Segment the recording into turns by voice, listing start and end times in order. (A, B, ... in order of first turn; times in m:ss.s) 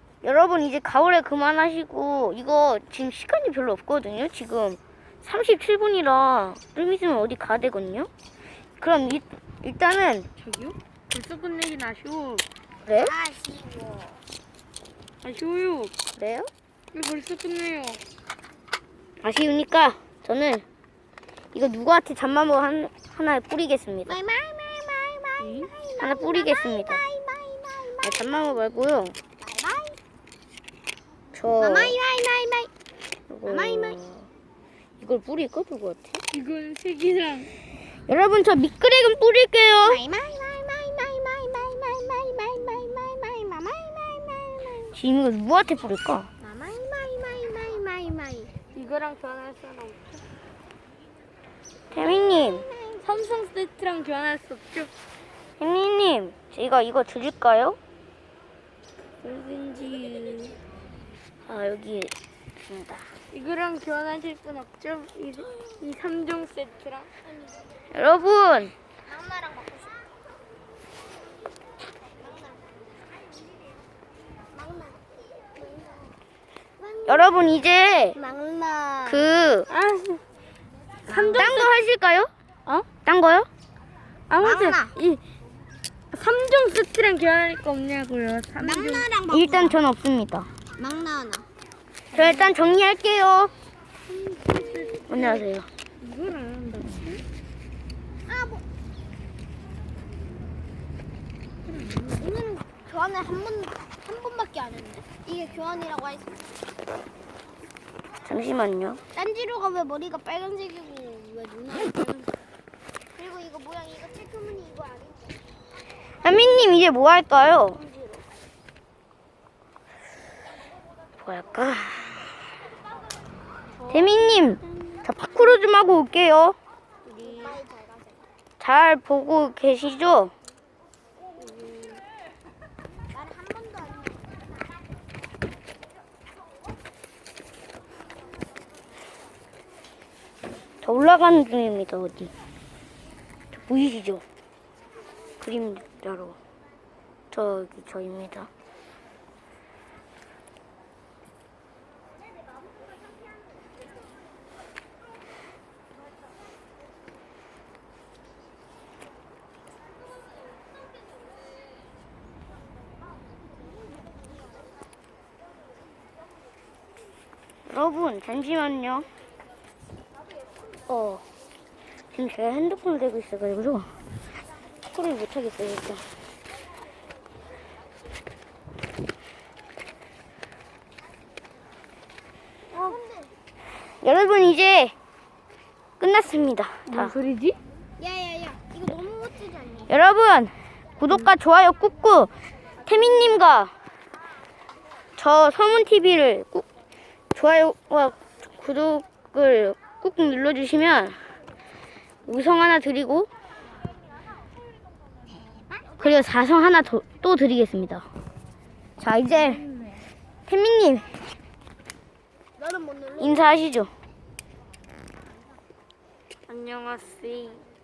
0:00.2-0:08.1 A
0:08.8-0:10.3 A
0:10.4-0:12.4 B
0:12.9-0:13.1 A
0:13.0-0:14.2 C
0:15.2-0:15.9 B
0:16.2-0:16.5 A
0:16.9-0:18.0 B
0:19.2-0:20.6 A
0:21.5-0:24.2 A
0:24.1-0:28.6 C
0:25.4-0:25.7 B
0:26.0-0:27.0 A
0:28.0-0:29.2 A
0:29.4-0:30.0 C
0:31.3-0:32.0 A
0:31.6-0:32.7 C
0:33.3-0:34.3 A
0:33.4-0:34.0 C
0:35.0-0:36.2 A
0:36.3-0:37.5 B
0:38.1-0:40.0 A
0:39.8-0:45.0 C
0:44.9-0:46.3 A
0:46.4-0:48.5 C
0:48.7-0:50.2 B
0:51.9-0:52.7 A
0:52.0-0:53.0 C
0:53.0-0:54.9 B
0:55.6-0:57.8 A
0:59.2-1:00.6 B
1:01.5-1:03.1 A
1:03.3-1:07.1 B
1:07.9-1:08.7 A
1:09.0-1:10.1 C
1:12.4-1:12.7 C
1:14.5-1:16.2 C
1:16.8-1:17.4 C
1:17.1-1:18.2 A
1:18.1-1:19.3 C
1:19.1-1:19.7 A
1:19.7-1:20.2 B
1:21.1-1:21.7 C
1:21.1-1:21.7 B
1:21.3-1:22.3 A
1:23.1-1:23.5 A
1:24.3-1:25.2 B
1:24.4-1:25.0 C
1:26.1-1:29.1 B
1:28.6-1:29.8 C
1:29.3-1:30.5 A
1:30.8-1:31.5 C
1:32.1-1:32.6 B
1:32.1-1:33.5 A
1:34.4-1:35.5 B
1:34.4-1:34.9 C
1:35.1-1:35.7 A
1:36.0-1:37.2 B
1:38.3-1:38.6 C
1:41.8-1:46.4 C
1:48.2-1:49.0 A
1:49.1-1:52.4 C
1:53.2-1:55.4 C
1:56.2-1:57.8 A
1:57.7-1:58.2 C
2:01.2-2:02.3 A
2:03.8-2:04.1 B
2:03.9-2:06.6 A
2:04.9-2:05.3 C
2:07.1-2:07.6 B
2:07.2-2:08.2 C
2:08.6-2:10.3 A
2:13.1-2:14.4 C
2:20.8-2:22.3 A
2:23.5-2:24.2 A
2:25.4-2:26.4 A
2:27.3-2:28.5 A
2:47.7-2:49.1 A
2:50.9-2:51.2 A
2:52.1-2:54.0 A
2:54.9-2:56.1 A
3:02.7-3:03.3 C
3:04.0-3:04.9 A
3:06.0-3:07.2 A
3:06.9-3:07.6 B
3:08.0-3:09.9 C
3:09.9-3:12.3 A
3:12.8-3:13.7 A
3:15.2-3:16.7 A
3:17.4-3:21.2 A
3:22.3-3:23.3 A
3:26.0-3:28.1 A
3:29.0-3:29.6 A
3:29.3-3:30.0 B
3:30.5-3:31.2 A
3:32.6-3:33.5 C
3:33.2-3:33.9 A
3:36.5-3:37.6 B